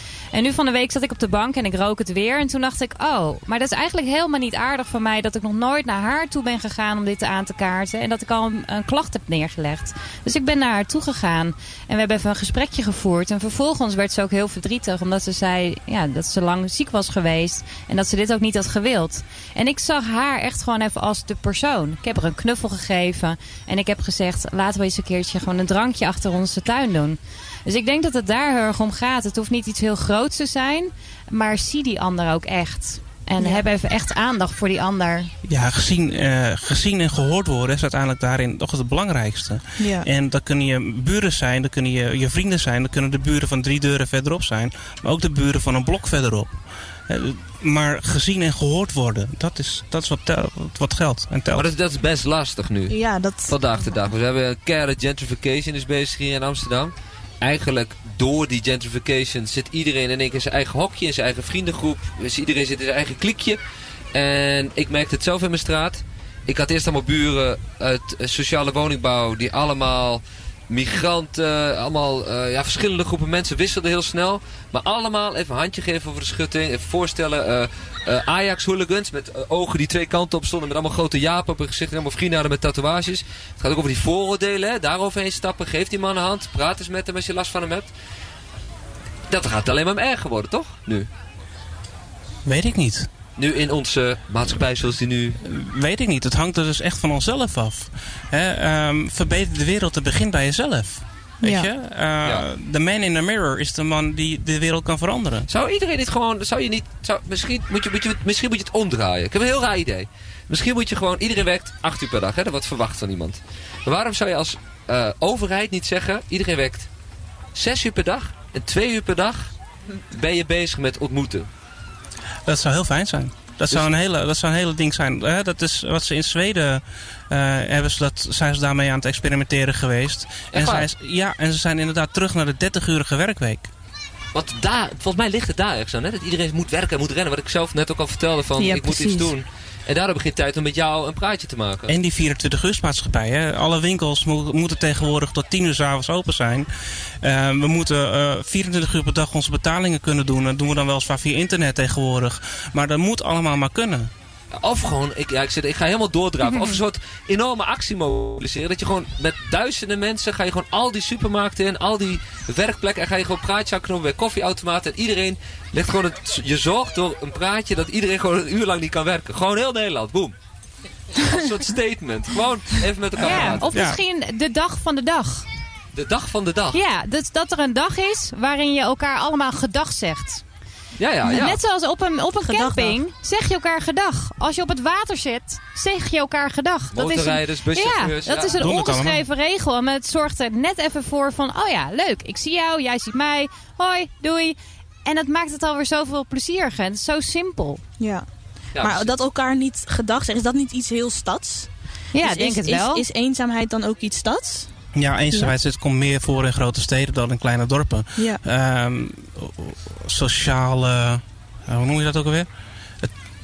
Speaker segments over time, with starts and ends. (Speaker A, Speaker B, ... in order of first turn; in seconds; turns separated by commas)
Speaker A: 0.3-35.3, Speaker B: 33.4-33.7, Speaker C: 35.4-51.7, Speaker B: 39.8-40.1, Speaker D: 51.5-63.6, Speaker B: 52.9-54.1, Speaker D: 64.1-87.9, Speaker D: 89.3-91.1, Speaker C: 92.5-93.1, Speaker D: 93.4-95.4, Speaker C: 95.4-105.5, Speaker B: 101.4-101.7, Speaker D: 105.5-116.9, Speaker D: 117.5-119.5, Speaker D: 120.1-121.5, Speaker C: 122.5-133.7, Speaker D: 130.5-130.9, Speaker D: 134.3-141.9, Speaker B: 138.6-139.3, Speaker C: 141.9-146.7, Speaker C: 147.2-154.1, Speaker D: 154.5-170.3, Speaker A: 156.5-156.8, Speaker D: 171.2-173.7, Speaker A: 173.2-175.5, Speaker C: 173.7-174.0, Speaker D: 175.9-176.8, Speaker A: 176.7-180.4, Speaker D: 181.0-181.6, Speaker A: 181.2-197.8, Speaker B: 182.4-183.0, Speaker D: 186.9-188.6, Speaker C: 188.6-189.2, Speaker B: 198.0-204.7, Speaker D: 198.7-199.1, Speaker A: 202.1-203.0, Speaker C: 204.9-212.5